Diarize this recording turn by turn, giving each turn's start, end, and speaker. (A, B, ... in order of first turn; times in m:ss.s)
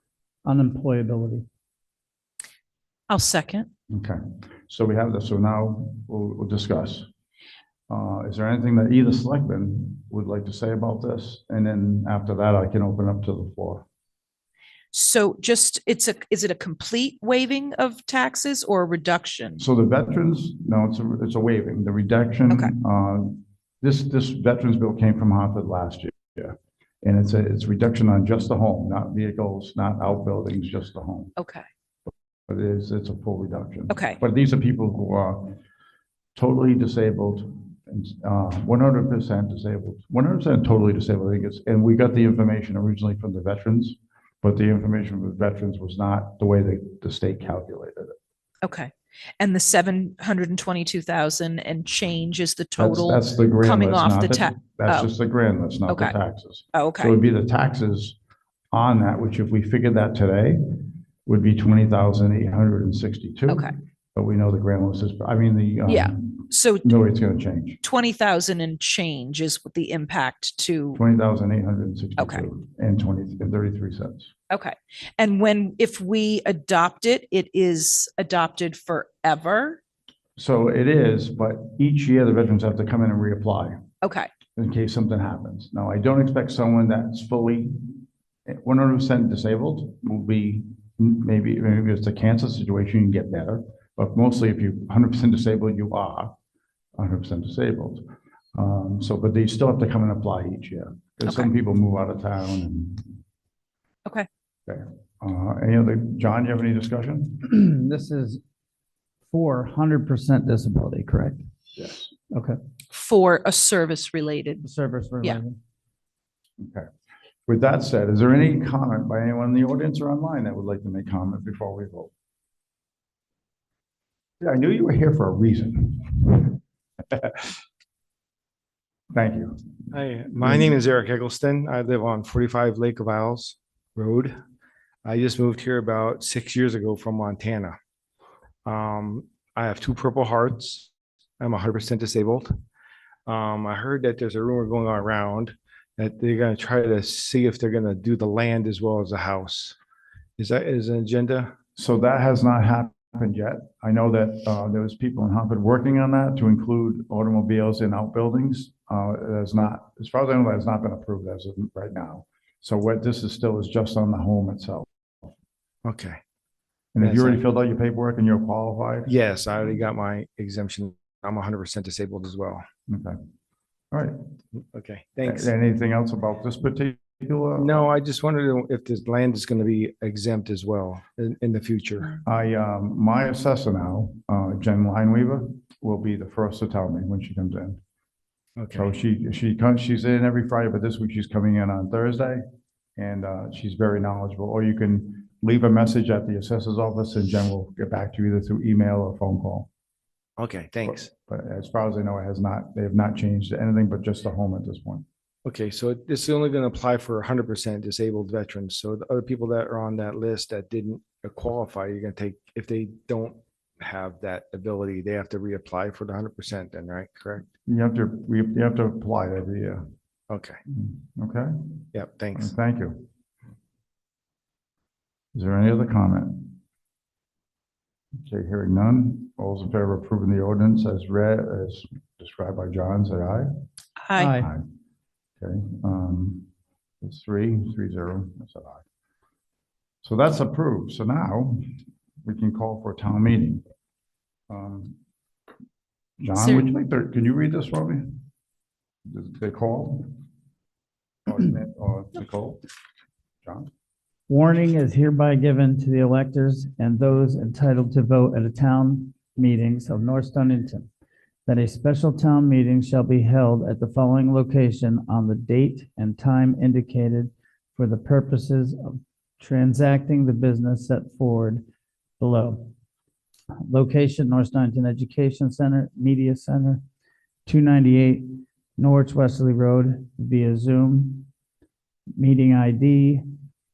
0:00.4-0:01.4 A
0:03.1-0:03.7 B
0:03.9-0:07.1 C
0:07.9-0:13.8 C
0:14.9-0:19.6 B
0:19.6-0:31.3 C
0:22.5-0:22.7 B
0:31.4-0:31.6 B
0:32.1-0:35.6 C
0:33.9-0:34.2 B
0:36.4-0:48.1 C
0:48.6-0:55.1 B
0:52.8-0:58.2 C
0:55.9-0:56.1 B
0:56.7-0:57.2 B
0:58.7-1:00.6 C
1:01.2-1:07.8 C
1:03.5-1:03.7 B
1:05.9-1:07.0 B
1:07.8-1:11.0 B
1:10.9-1:14.3 C
1:12.2-1:12.4 B
1:14.5-1:19.8 B
1:20.4-1:23.8 C
1:24.0-1:24.3 B
1:24.5-1:28.0 C
1:28.5-1:36.3 C
1:37.0-1:43.1 C
1:41.2-1:41.5 B
1:44.7-1:47.5 C
1:47.4-1:48.4 A
1:49.3-1:51.4 A
1:51.8-1:52.1 C
1:52.3-1:52.6 A
1:52.9-1:54.6 B
1:54.6-1:55.6 A
1:56.6-1:56.9 C
1:57.5-2:02.1 C
2:04.4-2:06.6 C
2:07.1-2:07.5 C
2:09.1-2:10.6 C
2:09.9-2:14.3 D
2:15.0-2:17.8 D
2:18.6-2:22.5 D
2:23.3-2:29.8 D
2:30.4-2:31.5 D
2:31.8-2:44.9 C
2:45.8-2:46.2 D
2:46.9-2:49.1 C
2:47.0-2:47.4 D
2:49.0-2:52.6 D
2:52.9-2:53.2 C
2:53.9-2:54.2 C
2:54.5-2:55.5 D
2:55.2-2:57.9 C
2:57.6-3:02.2 D
3:02.2-3:07.8 C
3:08.6-3:08.9 D
3:08.7-3:12.4 C
3:13.0-3:19.7 C
3:20.4-3:21.1 D
3:20.8-3:25.0 C
3:25.4-3:37.5 D
3:37.6-3:39.8 C
3:40.3-3:40.6 D
3:40.7-3:41.5 C
3:41.9-3:42.5 D
3:42.3-3:43.1 C
3:45.3-3:46.6 C
3:48.2-3:53.5 C
3:54.0-3:54.3 B
3:54.1-3:54.5 A
3:54.4-3:54.6 C
3:55.4-3:56.4 C
3:57.0-3:58.8 C
4:00.0-4:01.6 C
4:02.2-4:03.6 C
4:04.5-4:05.0 C
4:06.2-4:08.2 C
4:06.4-4:06.7 B
4:09.0-4:10.2 C
4:11.2-4:12.6 C
4:13.4-4:13.7 C
4:14.3-4:20.9 A
4:21.4-4:31.6 A
4:32.2-4:32.7 A
4:33.6-4:36.8 A
4:37.4-4:41.3 A
4:42.2-4:43.2 A